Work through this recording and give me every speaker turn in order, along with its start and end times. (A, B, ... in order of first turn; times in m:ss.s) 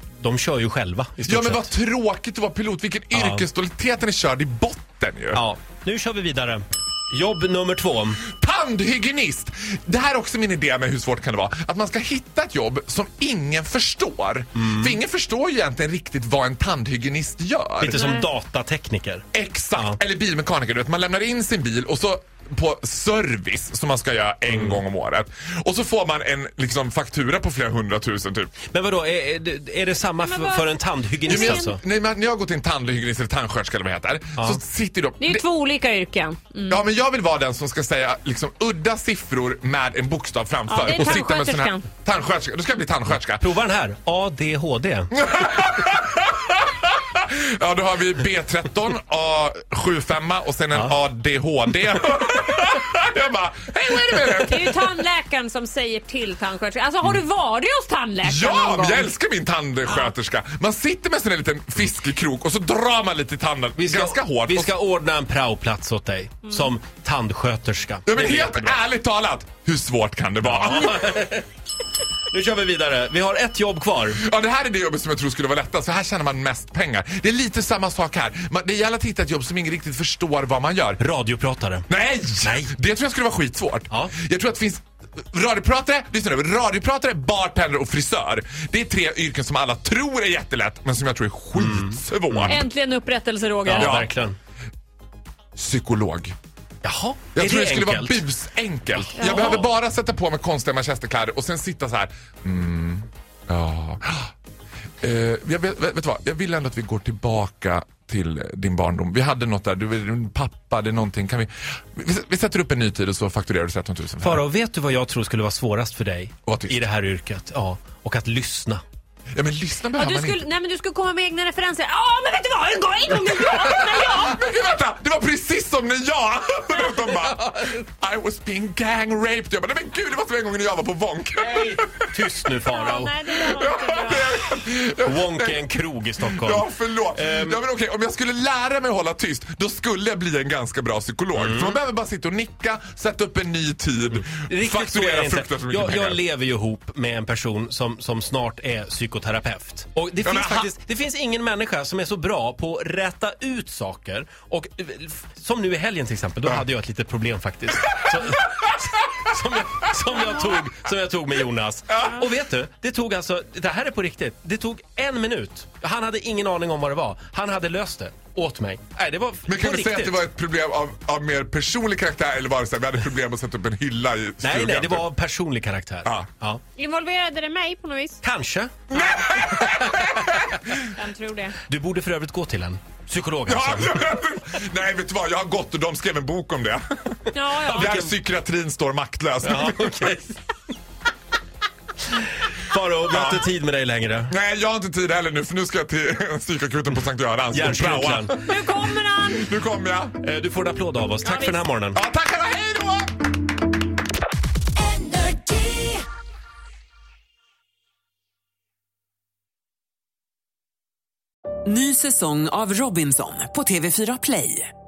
0:00.2-0:01.7 A
0:01.3-0:05.4 B
0:03.1-0:03.5 A
0:05.3-0:08.2 A
0:08.3-0:17.9 B
0:14.6-0:15.0 A
0:17.8-0:20.0 A
0:17.9-0:18.2 C
0:19.3-0:28.5 B
0:24.5-0:24.8 A
0:28.6-0:31.8 A
0:30.2-0:30.7 C
0:31.3-0:31.8 C
0:31.4-0:35.4 B
0:35.2-0:36.8 C
0:36.7-0:43.4 B
0:40.7-0:42.0 C
0:40.8-0:41.2 A
0:43.1-0:45.1 A
0:45.2-0:46.2 B
0:47.2-0:54.7 B
0:54.3-0:59.1 C
0:58.2-1:04.7 B
0:59.9-1:00.1 C
1:03.8-1:08.8 A
1:08.1-1:10.9 B
1:10.4-1:11.4 A
1:12.3-1:14.2 A
1:14.2-1:21.0 B
1:21.0-1:21.9 A
1:21.9-1:32.6 B
1:22.4-1:22.7 A
1:31.5-1:32.6 A
1:32.5-1:34.1 C
1:33.6-1:34.4 A
1:35.6-1:36.3 B
1:36.8-1:38.2 A
1:37.4-1:44.3 B
1:38.9-1:39.7 A
1:39.1-1:39.6 C
1:45.0-1:54.4 B
1:54.2-1:58.8 A
1:56.5-1:56.8 B
1:59.4-2:00.4 B
2:00.0-2:04.7 C
2:04.3-2:11.4 B
2:07.1-2:07.8 A
2:11.4-2:13.3 A
2:12.6-2:14.5 C
2:13.6-2:15.6 B
2:15.0-2:17.6 A
2:16.4-2:26.2 B
2:21.3-2:21.8 A
2:24.1-2:50.2 A
2:30.2-2:30.7 B
2:49.5-2:55.0 B
2:54.4-2:56.6 A
2:56.8-2:58.2 C
2:58.2-3:00.2 A
2:58.9-2:59.5 C
2:59.0-3:00.6 B
3:00.9-3:01.6 C
3:01.7-3:04.1 A
3:03.5-3:06.8 B
3:07.3-3:07.9 C
3:07.5-3:08.1 A
3:07.8-3:09.8 B
3:09.4-3:10.4 A
3:12.1-3:14.3 A
3:13.1-3:13.4 B
3:14.3-3:18.2 B
3:17.5-3:18.6 A
3:18.4-3:19.6 C
3:19.6-3:20.1 B
3:20.2-3:22.0 A
3:21.2-3:21.6 C
3:22.0-3:23.1 B
3:24.9-3:25.9 D
3:31.6-3:34.7 D